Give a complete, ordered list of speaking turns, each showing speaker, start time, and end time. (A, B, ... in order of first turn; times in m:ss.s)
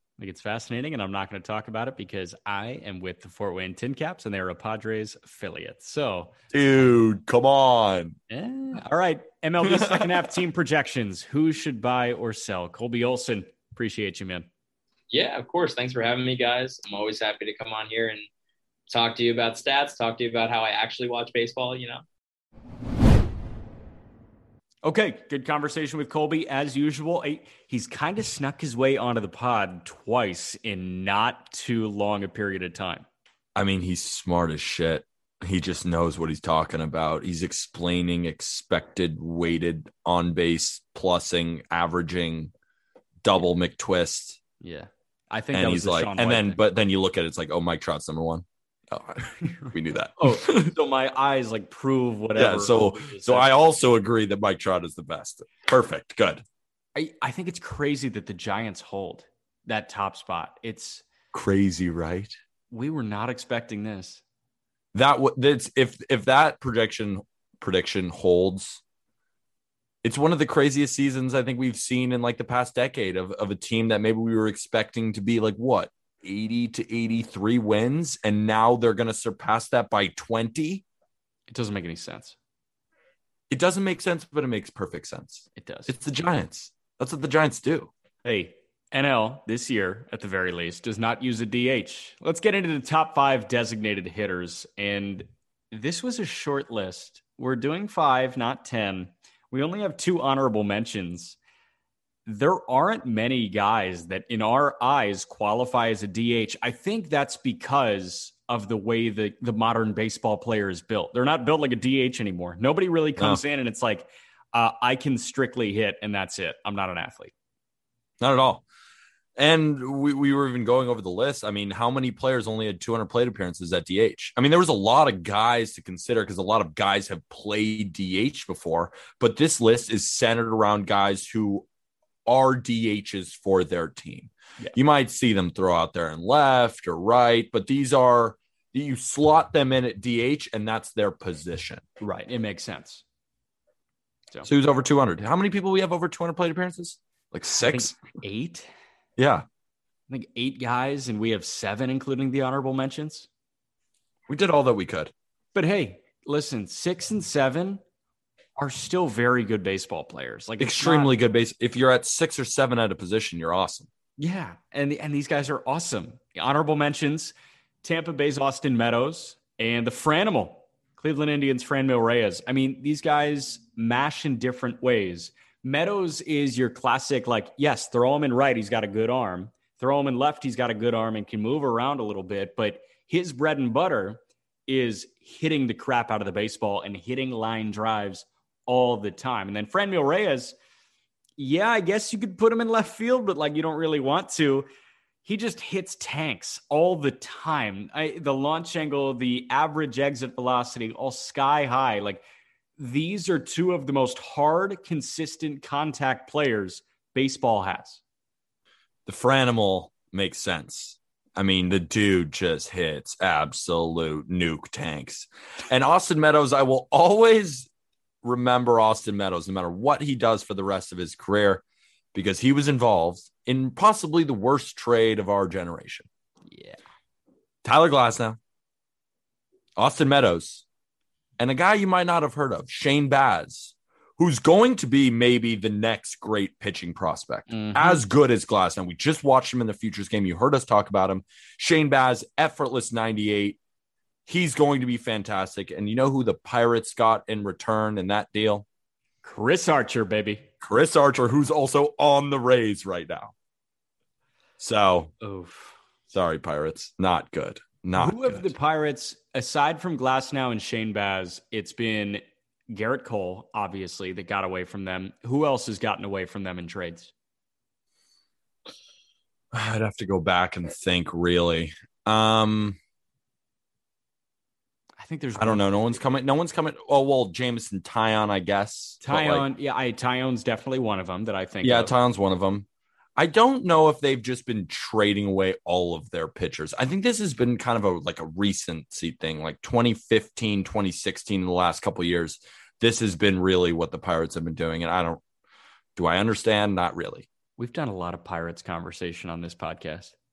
0:00.2-0:06.3 A
0:06.5-0:08.2 B
0:08.3-0:14.5 A
0:09.6-0:10.1 B
0:15.1-0:18.2 C
0:18.9-0:22.0 C
0:24.8-0:33.1 A
0:33.6-0:42.5 B
0:43.2-0:44.4 B
0:44.6-0:46.6 A
0:45.5-0:50.7 B
0:49.5-0:53.5 A
0:52.4-0:56.4 B
0:57.0-1:01.0 A
1:01.3-1:02.4 B
1:02.7-1:04.2 A
1:04.9-1:08.8 B
1:10.0-1:20.8 B
1:21.5-1:22.4 A
1:23.5-1:27.9 B
1:25.6-1:25.9 A
1:28.2-1:41.4 A
1:42.3-1:57.3 A
1:58.2-1:58.6 B
1:59.4-2:11.7 B
2:12.3-2:21.8 B
2:22.0-2:23.0 A
2:24.4-2:28.0 B
2:27.7-2:28.7 A
2:29.2-2:29.4 B
2:30.1-2:33.3 A
2:34.3-2:35.1 B
2:35.6-2:37.8 A
2:38.6-2:41.2 A
2:40.6-2:43.9 B
2:44.2-3:10.6 A
3:11.4-3:14.7 A
3:15.2-3:22.2 A
3:22.8-3:28.0 A
3:29.1-3:37.7 B
3:38.2-3:41.6 B
3:42.1-3:46.1 B
3:46.5-3:46.8 A
3:47.6-3:48.4 B
3:49.8-3:50.6 B
3:51.4-4:03.6 B
3:57.5-3:58.0 A
4:04.3-4:08.6 B
4:09.2-4:10.5 A
4:10.6-4:13.3 B
4:14.6-4:15.1 B
4:15.2-4:15.8 A
4:16.1-4:18.5 B
4:18.0-4:27.1 A
4:29.5-4:32.8 B
4:35.0-4:36.1 A
4:35.4-4:39.5 B
4:39.0-4:41.9 A
4:41.6-4:55.2 B
4:56.0-4:57.3 B
4:57.6-5:00.1 A